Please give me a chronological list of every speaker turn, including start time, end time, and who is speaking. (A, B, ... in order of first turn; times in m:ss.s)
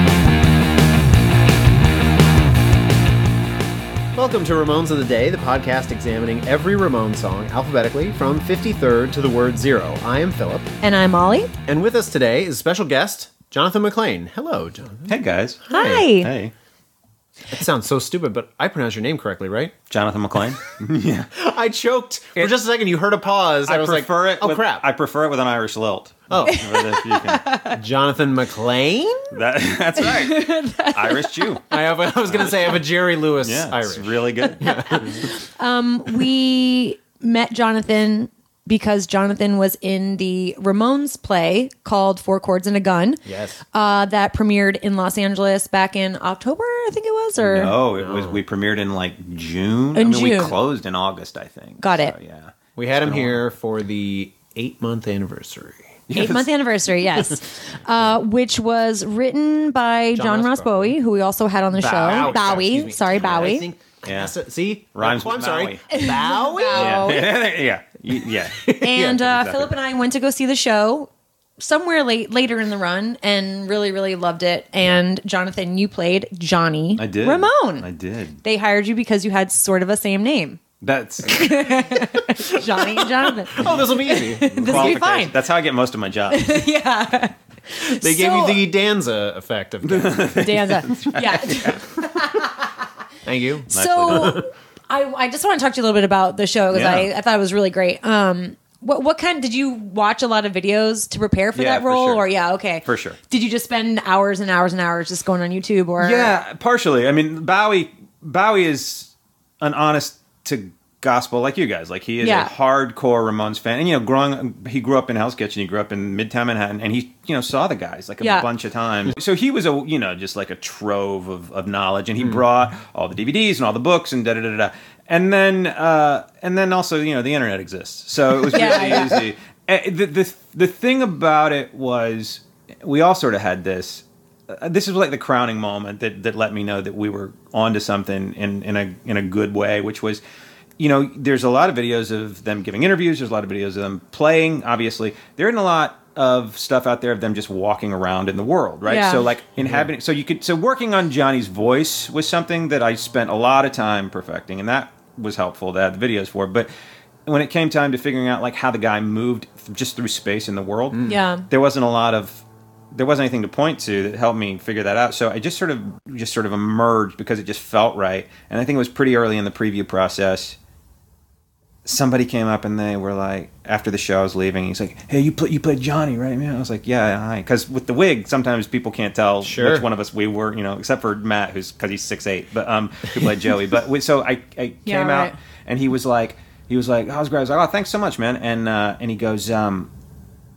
0:04.1-0:10.7 A
0:10.8-0:11.5 B
0:11.6-0:15.1 A
0:15.1-0:16.5 C
0:15.7-0:16.3 B
0:15.7-0:16.1 A
0:17.5-0:19.7 A
0:19.9-0:21.3 C
0:21.3-0:24.8 A
0:23.6-0:27.5 C
0:26.3-0:26.7 A
0:26.4-0:27.8 B
0:27.7-0:29.4 A
0:29.3-0:31.6 C
0:30.0-0:31.6 B
0:31.7-0:35.3 A
0:32.2-0:32.8 C
0:33.4-0:35.2 C
0:34.6-0:43.2 B
0:43.2-0:43.6 A
0:43.7-0:47.7 B
0:47.4-0:53.4 C
0:47.6-0:48.4 A
0:49.9-0:50.5 B
0:51.8-0:52.1 B
0:52.8-0:55.9 A
0:56.1-0:56.5 C
0:56.1-1:03.7 B
1:00.1-1:01.0 A
1:01.7-1:07.3 A
1:02.0-1:02.4 C
1:04.0-1:04.3 C
1:04.9-1:06.0 C
1:05.9-1:07.3 B
1:06.7-1:09.7 C
1:08.6-1:09.1 A
1:08.7-1:17.8 B
1:17.0-1:18.4 C
1:18.4-1:20.6 B
1:20.8-1:21.9 C
1:21.2-1:25.3 B
1:22.8-1:25.0 A
1:24.4-1:26.6 C
1:26.3-1:28.6 B
1:27.8-1:30.4 A
1:29.8-1:31.8 C
1:30.4-1:32.7 B
1:33.2-1:34.5 A
1:33.7-1:34.4 C
1:33.7-1:46.3 B
1:36.7-1:37.1 C
1:41.5-1:42.3 C
1:42.8-1:43.2 C
1:46.0-2:20.2 C
1:52.2-1:52.5 B
1:58.2-1:58.5 B
2:08.5-2:09.2 B
2:08.5-2:09.1 A
2:20.8-2:36.7 C
2:28.8-2:29.3 B
2:29.6-2:29.9 A
2:37.2-2:50.6 C
2:40.9-2:41.2 A
2:41.0-2:41.4 B
2:51.8-3:09.9 C
2:59.4-2:59.8 A
3:04.8-3:05.3 B